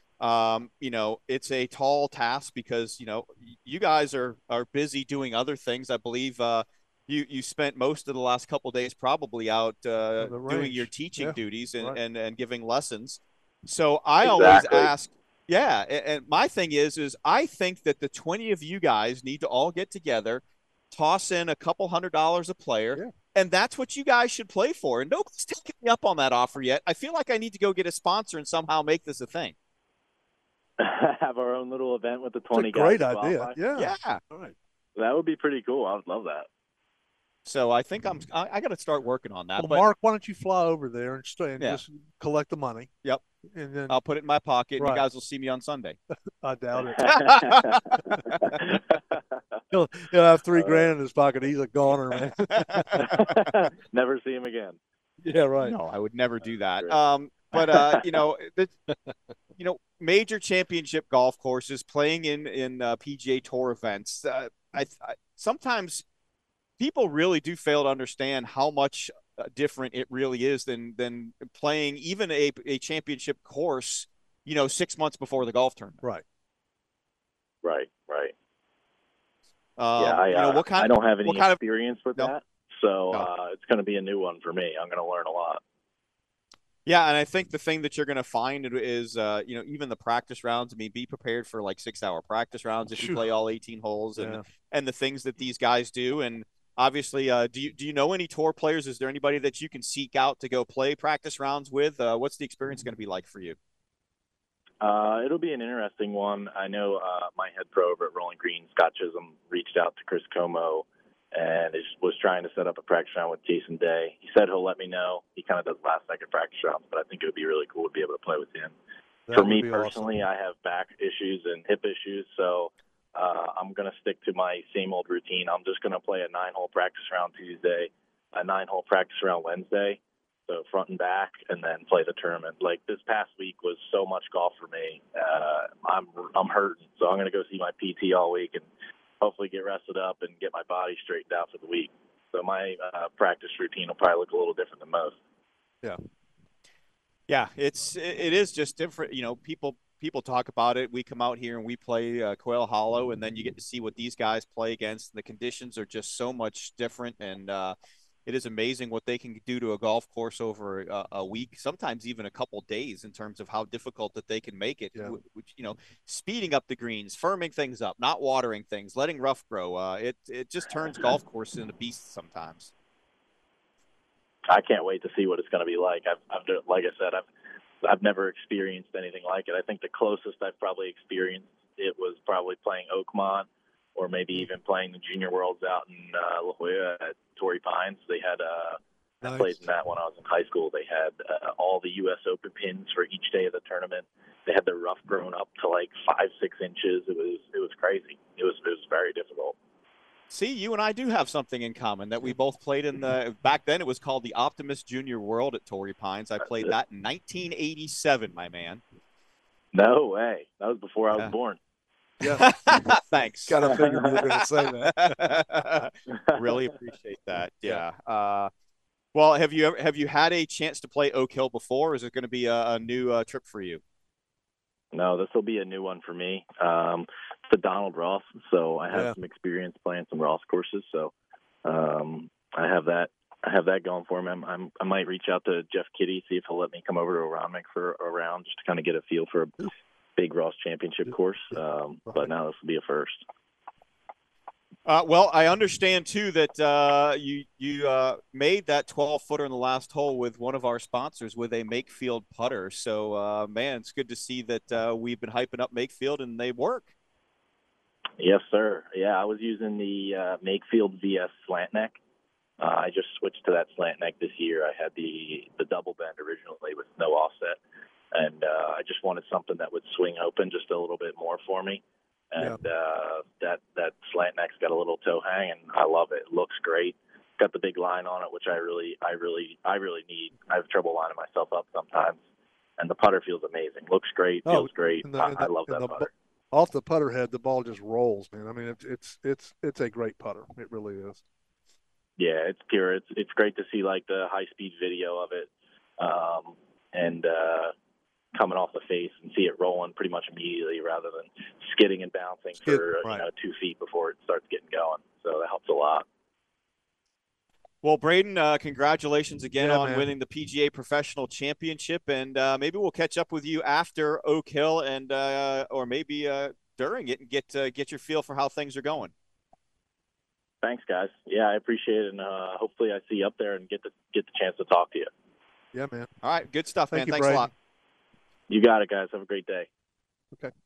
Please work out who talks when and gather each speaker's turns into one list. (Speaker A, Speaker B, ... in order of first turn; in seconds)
Speaker A: 0.2-29.5, 33.8-34.2, 37.4-39.9, 43.9-46.0, 55.6-58.7, 59.6-66.0, 66.8-76.0, 79.8-81.6, 86.9-103.6, 147.3-172.7, 200.3-208.8, 212.2-213.7, 214.9-218.5, 219.1-223.8, 244.9-256.9, 307.8-319.1, 326.2-327.5
Speaker B: 10.2-12.0, 32.5-34.5, 39.6-42.9, 43.5-44.0, 44.8-45.1, 46.4-48.2, 49.7-53.4, 55.2-55.8, 92.9-93.3, 94.2-94.4, 119.3-120.2, 189.2-189.6, 212.2-212.5, 213.5-215.4, 228.9-229.2, 284.4-291.2, 302.6-303.2, 309.6-310.1, 325.7-326.1, 326.9-327.5
Speaker C: 14.2-14.9, 30.8-33.6, 35.0-36.5, 47.0-47.9, 48.5-49.2, 50.5-50.9, 53.0-54.8, 57.7-58.0, 77.6-78.3, 80.0-85.6, 104.8-118.7, 119.3-138.7, 139.2-145.2, 174.5-177.2, 177.8-199.6, 209.7-211.6, 213.6-214.2, 224.9-231.1, 231.6-243.2, 258.2-261.9, 262.6-267.6, 268.1-282.2, 282.8-286.1, 292.2-297.7, 298.3-306.1, 320.6-325.1, 328.5-329.7